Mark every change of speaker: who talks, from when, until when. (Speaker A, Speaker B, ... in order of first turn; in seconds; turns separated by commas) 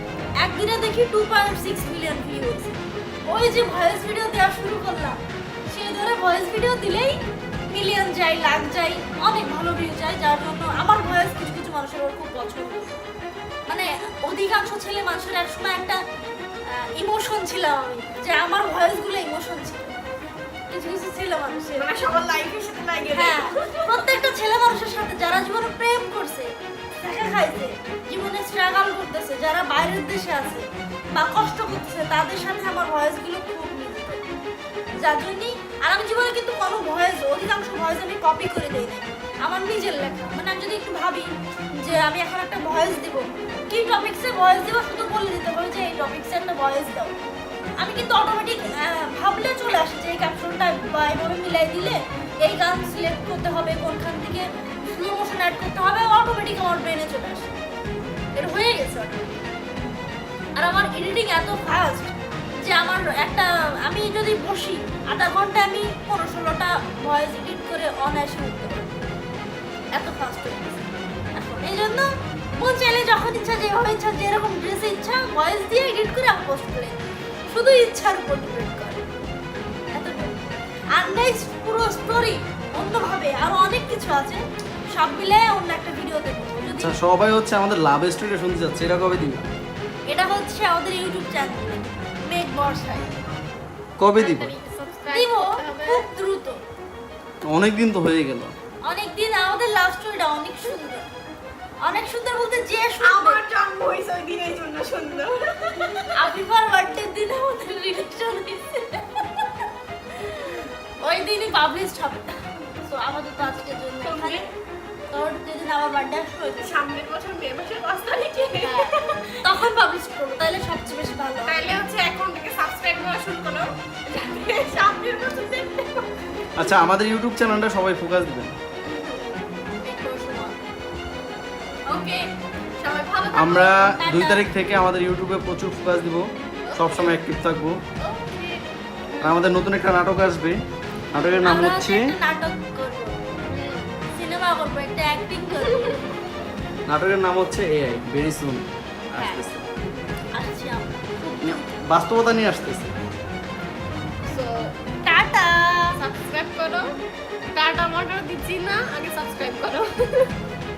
Speaker A: 0.4-5.2, Speaker A: 5.7-7.1, Speaker A: 7.7-13.0, Speaker A: 13.7-16.0, Speaker A: 16.7-20.0, Speaker A: 20.7-21.9, Speaker B: 21.8-24.2, Speaker A: 23.1-34.2, Speaker A: 35.0-47.1, Speaker A: 47.8-57.5, Speaker A: 58.4-59.3, Speaker A: 60.6-68.9, Speaker A: 69.9-72.1, Speaker A: 72.6-79.2, Speaker A: 79.9-80.4, Speaker A: 81.0-84.4, Speaker A: 84.9-87.0, Speaker C: 86.8-89.5, Speaker A: 90.1-93.1, Speaker C: 94.0-94.5, Speaker B: 94.2-96.0, Speaker A: 95.1-96.6, Speaker C: 97.5-98.5, Speaker A: 98.9-101.1, Speaker A: 101.8-103.4, Speaker B: 103.0-106.2, Speaker A: 106.1-109.6, Speaker A: 110.2-114.5, Speaker B: 114.0-114.5, Speaker A: 115.1-116.8, Speaker B: 116.6-119.4, Speaker A: 118.6-121.7, Speaker B: 121.5-126.1, Speaker C: 126.6-128.6, Speaker B: 128.9-129.2, Speaker B: 129.8-130.6, Speaker B: 131.9-132.3, Speaker B: 132.8-133.7, Speaker C: 133.3-137.8, Speaker A: 133.4-134.4, Speaker B: 136.7-137.1, Speaker B: 138.0-139.4, Speaker C: 139.2-140.6, Speaker C: 141.1-142.1, Speaker A: 141.1-143.2, Speaker B: 143.5-143.9, Speaker A: 144.1-146.2, Speaker B: 145.7-145.9, Speaker C: 146.9-149.7, Speaker A: 149.2-149.4, Speaker A: 150.3-151.7, Speaker C: 151.4-152.9, Speaker B: 154.3-154.8, Speaker A: 155.1-155.9, Speaker B: 156.0-156.9, Speaker B: 157.5-160.3